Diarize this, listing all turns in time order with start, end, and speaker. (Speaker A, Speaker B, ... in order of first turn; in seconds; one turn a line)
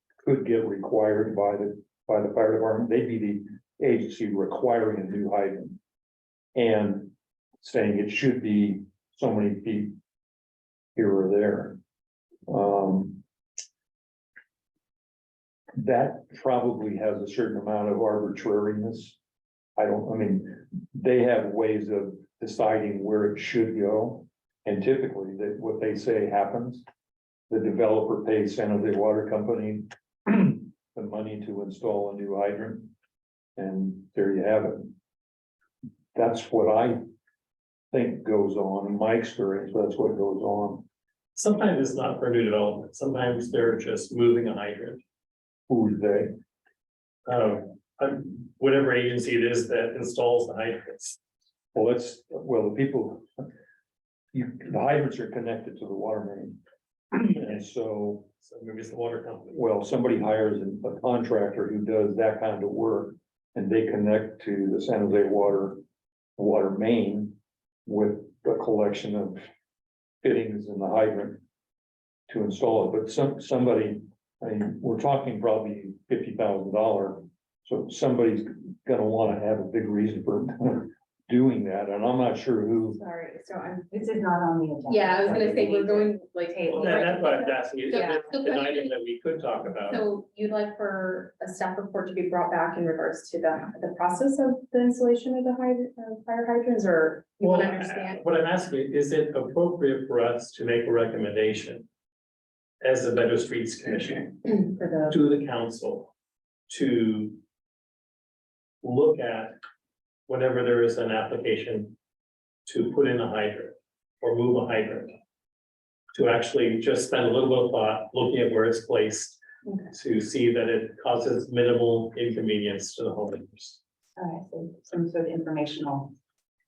Speaker A: 0.2-5.8
Speaker A: 6.5-9.9
Speaker A: 11.0-11.8
Speaker A: 12.5-13.2
Speaker A: 15.8-19.2
Speaker A: 19.8-26.9
Speaker A: 27.5-32.9
Speaker A: 33.6-34.9
Speaker A: 36.1-37.0
Speaker A: 37.9-40.9
Speaker B: 41.4-45.0
Speaker A: 45.7-46.3
Speaker B: 47.3-51.2
Speaker A: 51.7-53.5
Speaker A: 54.3-56.6
Speaker A: 57.1-58.3
Speaker B: 58.4-59.6
Speaker A: 59.5-65.8
Speaker A: 66.4-67.3
Speaker A: 67.9-69.4
Speaker A: 70.2-71.4
Speaker A: 72.3-83.0
Speaker C: 83.2-87.3
Speaker D: 84.9-88.9
Speaker B: 86.7-90.0
Speaker D: 89.9-98.2
Speaker B: 97.4-101.8
Speaker B: 102.8-104.5
Speaker D: 104.5-105.2
Speaker B: 105.1-106.1
Speaker B: 106.7-107.4
Speaker B: 108.8-109.6
Speaker B: 110.3-112.0
Speaker B: 112.7-115.2
Speaker B: 116.2-119.4
Speaker B: 119.9-123.8
Speaker C: 124.2-126.1